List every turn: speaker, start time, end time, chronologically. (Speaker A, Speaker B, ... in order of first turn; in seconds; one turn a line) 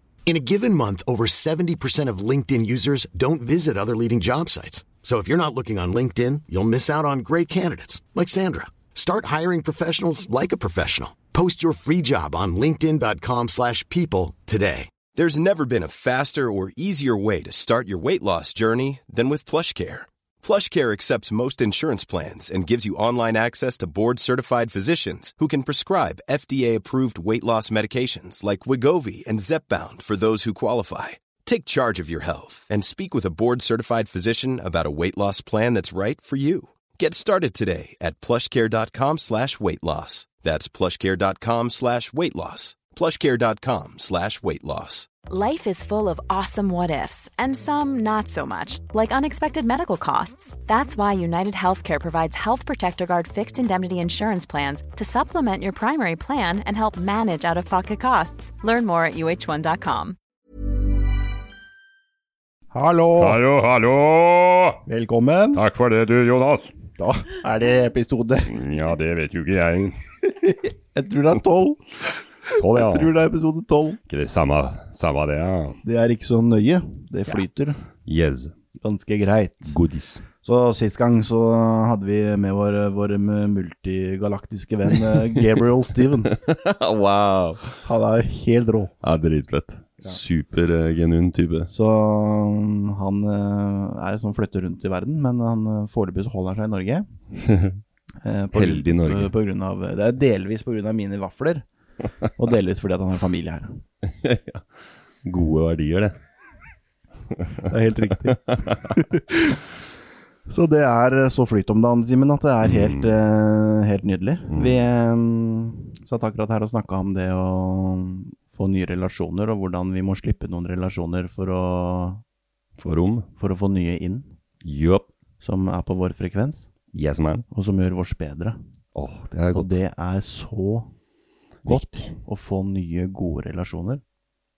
Speaker A: 0.2-15.0
Speaker B: 15.1-45.1
Speaker C: 45.3-60.2
Speaker D: 62.7-63.4
Speaker E: 63.2-64.8
Speaker D: 64.8-65.6
Speaker E: 65.5-66.8
Speaker D: 67.0-68.6
Speaker E: 68.5-70.0
Speaker D: 70.2-74.0
Speaker E: 72.5-73.1
Speaker E: 74.1-75.8
Speaker D: 75.8-77.8
Speaker E: 78.0-78.5
Speaker D: 78.8-79.8
Speaker E: 79.7-80.3
Speaker D: 80.4-86.3
Speaker E: 86.3-87.8
Speaker D: 87.8-88.9
Speaker E: 89.0-91.7
Speaker D: 91.7-97.1
Speaker E: 97.5-97.8
Speaker D: 98.2-101.7
Speaker E: 98.5-99.3
Speaker D: 102.3-103.8
Speaker E: 104.1-104.6
Speaker E: 105.2-106.2
Speaker D: 107.6-109.6
Speaker E: 108.1-108.8
Speaker D: 110.5-122.2
Speaker E: 112.6-113.1
Speaker E: 114.5-114.8
Speaker E: 122.8-123.3
Speaker D: 123.4-124.3
Speaker E: 124.6-125.1
Speaker D: 125.4-126.7
Speaker E: 126.9-127.4
Speaker D: 127.5-128.6
Speaker E: 128.9-129.7
Speaker D: 129.5-130.9
Speaker E: 131.6-132.2
Speaker D: 131.7-134.0